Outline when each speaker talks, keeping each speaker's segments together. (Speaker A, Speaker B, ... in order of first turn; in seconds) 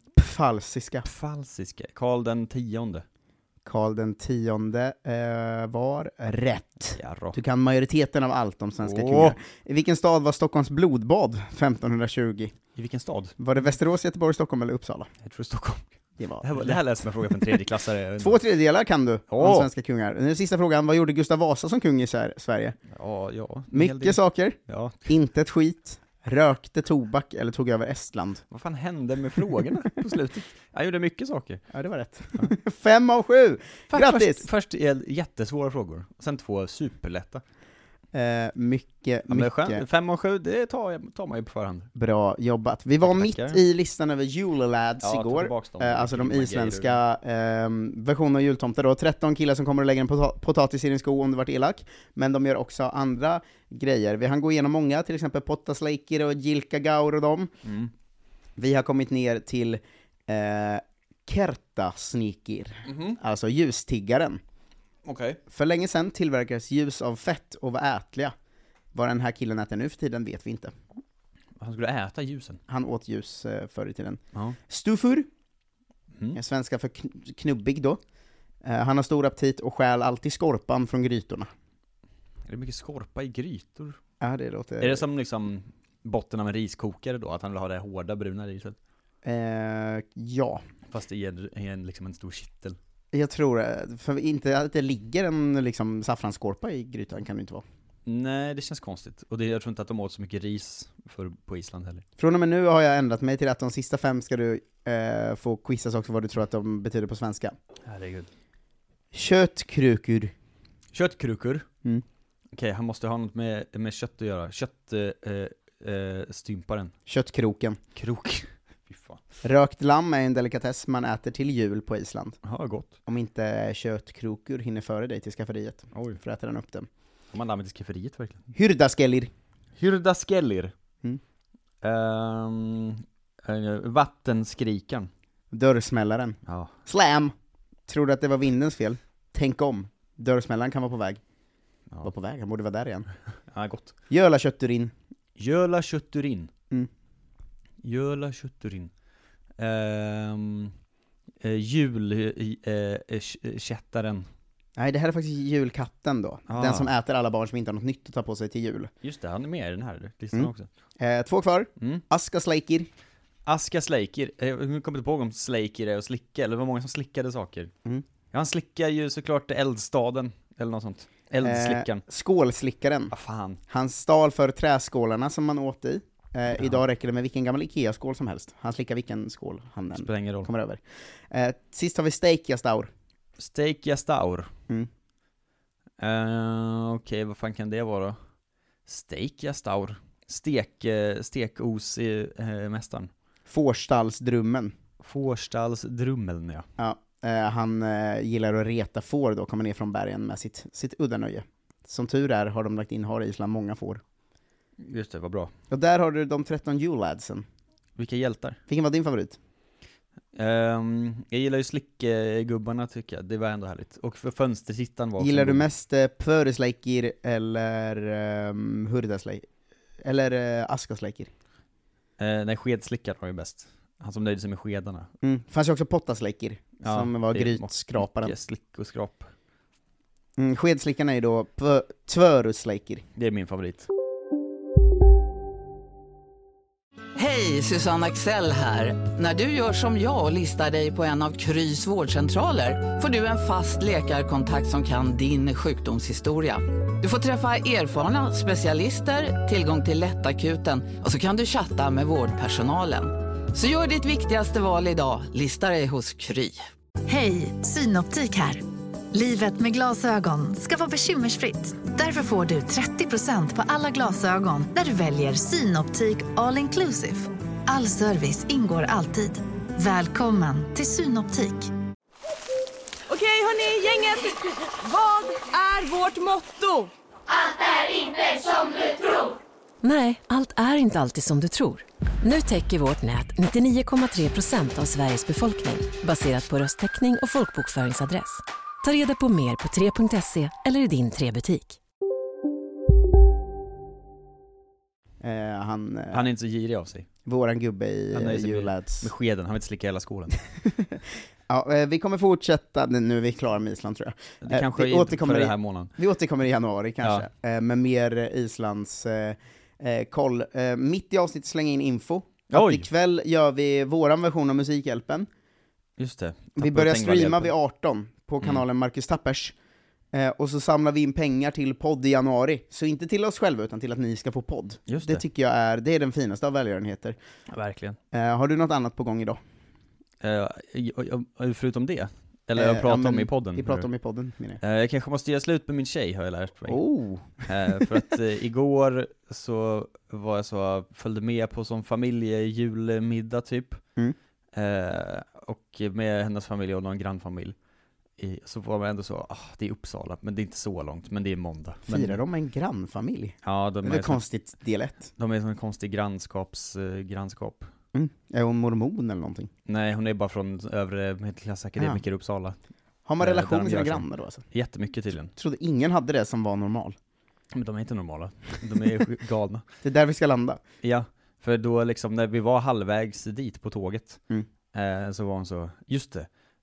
Speaker A: 0.2-1.1, 3.6-12.5, 13.4-15.1, 16.2-16.9, 18.2-22.8, 23.7-24.6, 25.1-28.4, 31.7-34.5, 38.1-39.8, 42.0-57.5, 58.6-64.4, 65.5-68.3, 68.9-70.7, 72.7-75.3, 76.3-78.0, 78.6-81.5, 84.2-85.0, 89.2-90.6, 93.1-97.6, 102.2-107.5, 109.1-110.3, 117.1-117.8, 119.4-122.4, 123.1-126.9, 128.5-129.3, 135.5-137.3, 137.9-141.2, 142.0-143.1, 144.1-144.9, 154.8-158.9, 160.3-162.9, 171.4-173.1, 173.7-182.9, 193.5-194.8, 196.8-204.0, 205.7-207.4, 208.7-209.4, 215.2-219.4, 220.0-221.3, 225.2-228.3, 230.4-233.1, 295.2-296.2, 297.3-299.1, 301.5-315.3, 316.6-319.5, 320.1-327.2, 328.1-329.4, 332.6-334.6, 336.7-337.5, 351.9-355.1, 357.9-359.5, 363.1-364.4, 365.4-367.0, 369.8-370.6
Speaker B: 1.1-3.0, 7.0-7.4, 8.8-9.3, 12.8-13.4, 15.2-18.4, 19.3-19.7, 22.9-25.1, 28.5-31.6, 33.9-37.4, 39.3-41.9, 43.0-43.6, 45.0-47.0, 57.6-57.9, 62.9-63.2, 65.0-65.4, 71.6-72.6, 82.5-84.0, 84.8-88.8, 90.9-92.8, 98.1-102.0, 107.9-108.3, 110.9-111.7, 112.5-116.9, 118.0-119.2, 122.4-122.9, 125.9-126.2, 127.3-128.5, 129.8-130.7, 131.8-135.1, 136.5-136.7, 143.5-143.9, 145.4-146.5, 147.8-148.9, 149.6-150.7, 151.4-154.3, 156.5-156.9, 159.0-160.7, 163.5-167.7, 168.3-172.0, 173.1-173.6, 179.9-180.5, 183.4-184.5, 186.0-188.2, 188.9-193.1, 195.0-196.7, 204.8-205.5, 208.0-208.6, 210.3-215.7, 222.2-225.1, 226.8-229.3, 233.2-233.9, 296.1-297.1, 298.1-300.4, 304.4-305.9, 312.5-312.9, 316.0-317.6, 324.9-325.2, 327.5-328.0, 330.2-333.9, 334.6-336.8, 337.5-343.8, 344.5-347.6, 348.2-352.2, 353.4-354.2, 355.2-357.7, 359.7-362.6, 363.2-365.3, 367.5-369.6, 370.8-374.2, 374.7-376.3
Speaker C: 237.2-256.6
Speaker D: 257.1-271.7
Speaker E: 273.1-276.9
Speaker F: 279.8-291.8